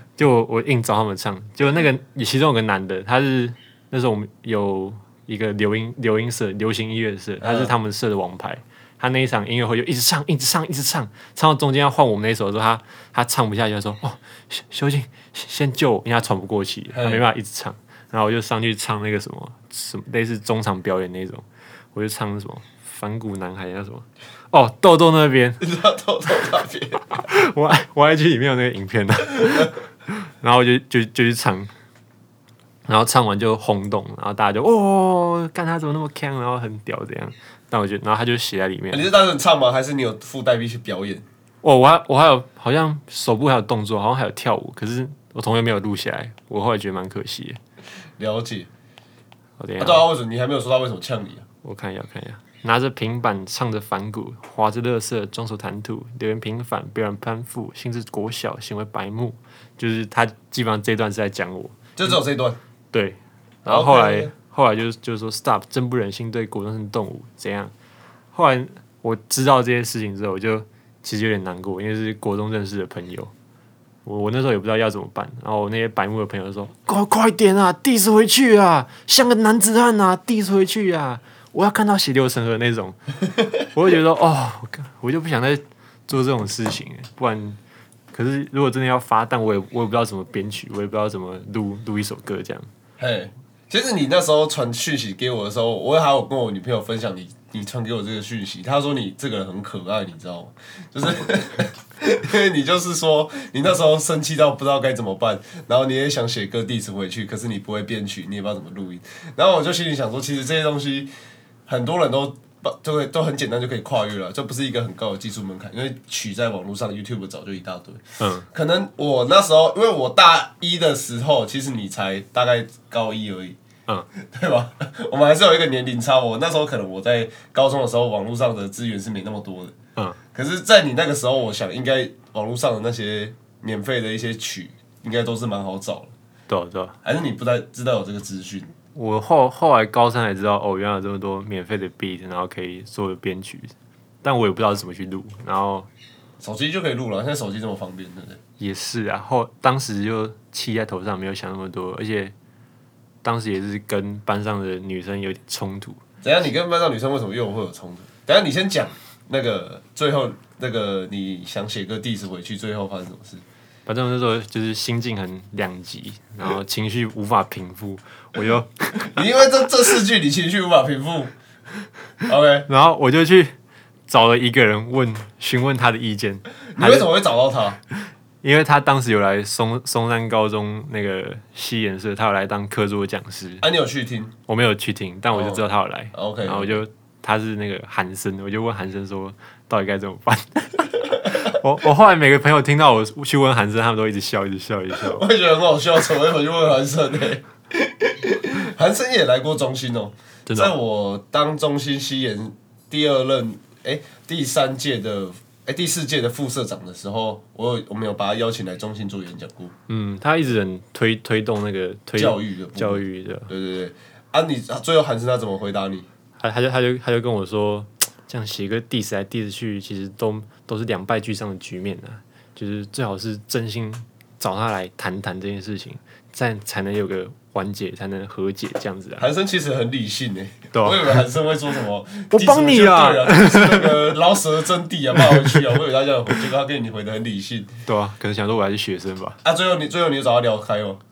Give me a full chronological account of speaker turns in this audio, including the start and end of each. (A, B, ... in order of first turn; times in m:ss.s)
0:00.2-0:25.6 A
0:07.4-0:07.7 B
0:16.9-0:17.2 B
0:25.6-0:27.1 B
0:27.2-0:29.8 A
0:30.4-0:31.7 A
0:32.9-0:39.1 A
0:38.9-0:41.2 B
0:41.6-0:47.6 A
0:48.2-0:48.7 B
0:49.6-0:50.1 A
0:49.8-0:51.4 B
0:51.6-1:02.2 A
1:02.0-1:02.6 B
1:02.9-1:07.7 A
1:03.7-1:04.3 B
1:08.3-1:13.3 A
1:14.0-1:23.0 A
1:23.7-1:27.6 A
1:28.1-1:32.7 A
1:33.0-1:51.1 B
1:51.7-2:03.6 B
1:58.2-1:58.5 A
2:04.2-2:09.7 B
2:10.3-2:16.1 B
2:16.5-2:17.0 A
2:17.0-2:18.7 B
2:19.0-2:23.7 A
2:24.2-2:25.9 A
2:26.4-2:28.4 B
2:28.6-2:32.3 A
2:33.2-2:36.0 A
2:36.2-2:43.4 B
2:43.9-2:49.1 A
2:49.1-2:51.3 B
2:52.3-2:52.7 B
2:52.7-2:53.5 A
2:54.1-2:57.1 A
2:56.8-2:57.8 B
2:58.4-3:03.6 A
3:03.6-3:04.3 B
3:04.5-3:15.3 A
3:05.3-3:05.6 B
3:06.1-3:06.8 B
3:15.0-3:29.7 B
3:20.5-3:20.8 A
3:29.9-3:33.5 A
3:32.2-3:36.1 B
3:36.4-3:49.3 A
3:49.2-3:57.7 B
3:50.7-3:51.2 A
3:52.3-3:54.1 A
3:55.3-3:55.6 A
3:57.9-3:59.4 A
3:59.4-4:01.0 B